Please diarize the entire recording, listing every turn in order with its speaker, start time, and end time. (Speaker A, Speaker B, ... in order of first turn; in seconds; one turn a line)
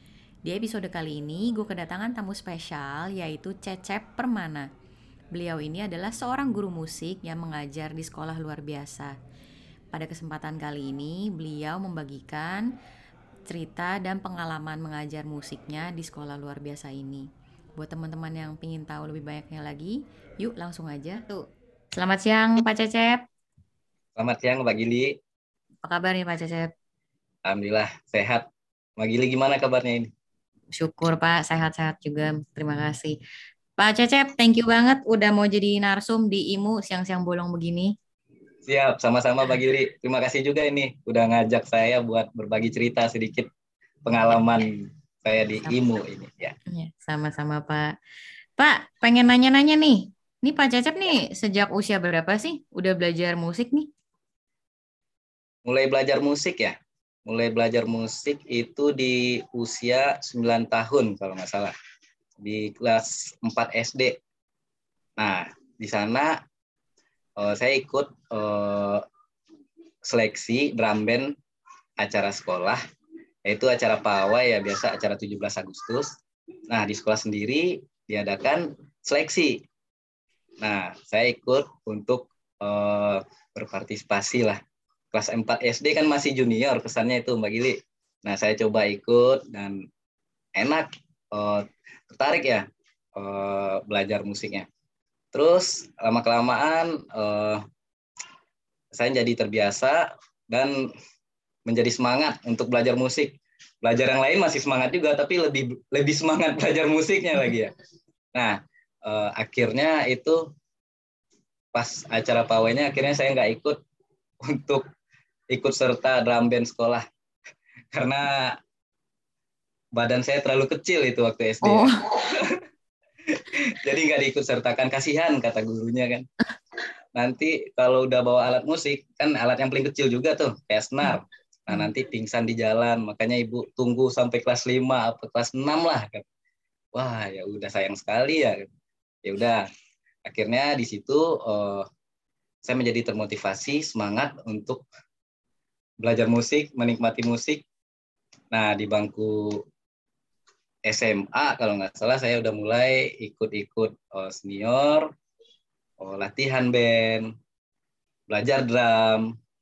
Speaker A: 0.5-4.7
Speaker A: 5.3-9.1
Speaker A: 9.9-12.7
Speaker A: 13.5-21.4
Speaker A: 21.9-23.2
Speaker B: 24.2-25.2
Speaker A: 25.8-26.7
Speaker B: 27.4-28.4
Speaker B: 29.0-30.1
Speaker A: 30.8-33.2
Speaker A: 33.8-37.9
Speaker B: 38.7-43.5
Speaker B: 44.0-46.5
Speaker A: 46.7-47.9
Speaker A: 48.6-53.9
Speaker B: 55.7-61.7
Speaker B: 62.4-64.2
Speaker B: 65.2-66.3
Speaker B: 67.4-69.0
Speaker B: 70.1-71.3
Speaker B: 72.0-72.8
Speaker B: 73.5-76.1
Speaker B: 76.7-79.6
Speaker B: 80.6-84.6
Speaker B: 85.1-89.8
Speaker B: 90.6-94.7
Speaker B: 95.3-97.6
Speaker B: 98.9-100.8
Speaker B: 101.7-107.7
Speaker B: 108.3-110.4
Speaker B: 111.7-113.8
Speaker B: 114.4-114.8
Speaker B: 115.5-117.0
Speaker B: 117.9-118.6
Speaker B: 120.0-122.6
Speaker A: 121.6-122.0
Speaker B: 123.3-126.2
Speaker B: 127.2-136.2
Speaker B: 136.9-138.7
Speaker B: 139.2-139.7
Speaker B: 140.2-141.8
Speaker B: 142.7-144.8
Speaker B: 146.0-147.6
Speaker B: 148.5-149.6
Speaker B: 150.9-155.1
Speaker B: 156.0-157.3
Speaker B: 158.3-159.3